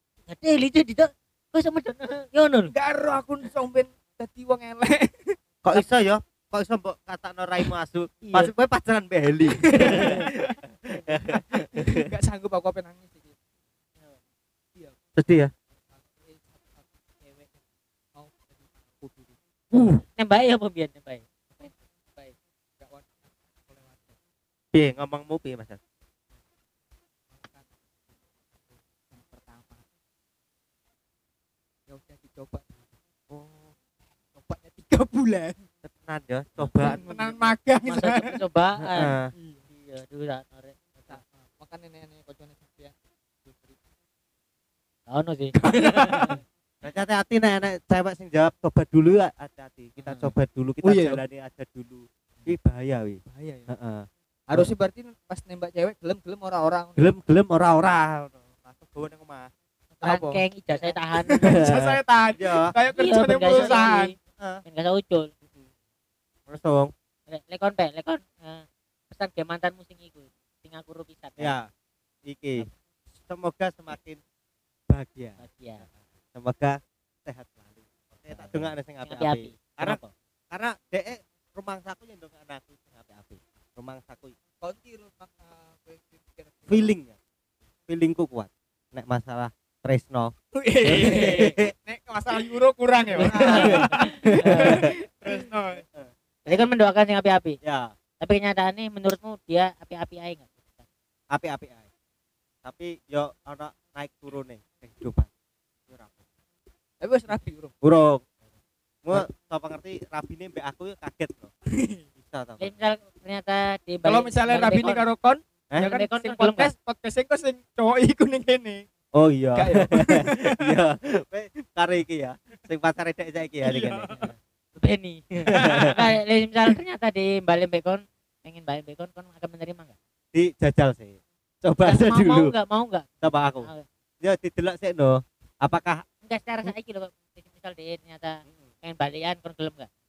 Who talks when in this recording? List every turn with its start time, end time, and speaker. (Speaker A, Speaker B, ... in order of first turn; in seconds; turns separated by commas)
Speaker A: 0.3-2.7, Speaker B: 2.7-5.3, Speaker C: 5.6-12.1, Speaker B: 9.6-10.5, Speaker A: 9.8-10.2, Speaker B: 11.8-13.3, Speaker C: 15.2-15.5, Speaker B: 15.9-17.6, Speaker B: 18.1-19.3, Speaker A: 19.7-21.7, Speaker B: 22.8-24.1, Speaker C: 24.7-25.8, Speaker B: 27.3-29.8, Speaker B: 31.9-32.9, Speaker C: 33.3-33.7, Speaker B: 34.3-35.6, Speaker C: 35.8-37.4, Speaker B: 36.8-38.4, Speaker A: 37.8-39.1, Speaker C: 38.8-39.3, Speaker B: 39.3-39.6, Speaker A: 39.7-41.2, Speaker B: 41.1-43.8, Speaker A: 45.1-46.4, Speaker B: 45.5-46.4, Speaker C: 46.8-54.7, Speaker A: 50.0-50.3, Speaker B: 50.8-51.2, Speaker B: 53.2-53.7, Speaker B: 54.5-57.0, Speaker C: 57.0-59.5, Speaker B: 60.0-64.1, Speaker A: 60.0-61.6, Speaker C: 61.4-62.7, Speaker A: 62.9-65.3, Speaker C: 63.5-63.8, Speaker C: 66.5-66.9, Speaker A: 67.3-71.5, Speaker C: 71.4-71.7, Speaker C: 72.2-72.7, Speaker C: 73.2-74.2, Speaker C: 74.9-75.4, Speaker A: 75.4-75.8, Speaker C: 76.3-80.0, Speaker A: 78.3-80.1, Speaker C: 80.5-84.3, Speaker B: 84.6-86.9, Speaker C: 86.7-87.1, Speaker C: 87.9-90.3, Speaker B: 90.5-95.8, Speaker C: 90.8-91.7, Speaker A: 93.1-94.8, Speaker C: 93.2-94.9, Speaker C: 96.0-96.6, Speaker A: 96.5-97.6, Speaker C: 97.6-97.9, Speaker A: 98.2-100.7, Speaker C: 101.3-101.8, Speaker C: 102.6-105.3, Speaker C: 105.9-106.2, Speaker B: 107.0-107.7, Speaker C: 107.8-108.2, Speaker C: 109.0-111.5, Speaker B: 111.7-112.0, Speaker C: 112.2-112.7, Speaker A: 112.6-115.0, Speaker B: 114.0-118.8, Speaker A: 115.8-116.7, Speaker C: 119.1-124.1, Speaker B: 119.5-120.7, Speaker B: 123.6-124.3, Speaker A: 124.1-129.9, Speaker C: 125.5-126.0, Speaker B: 125.5-126.0, Speaker C: 130.3-132.5, Speaker A: 131.8-133.1, Speaker C: 133.2-133.7, Speaker C: 134.2-136.0, Speaker A: 136.2-139.9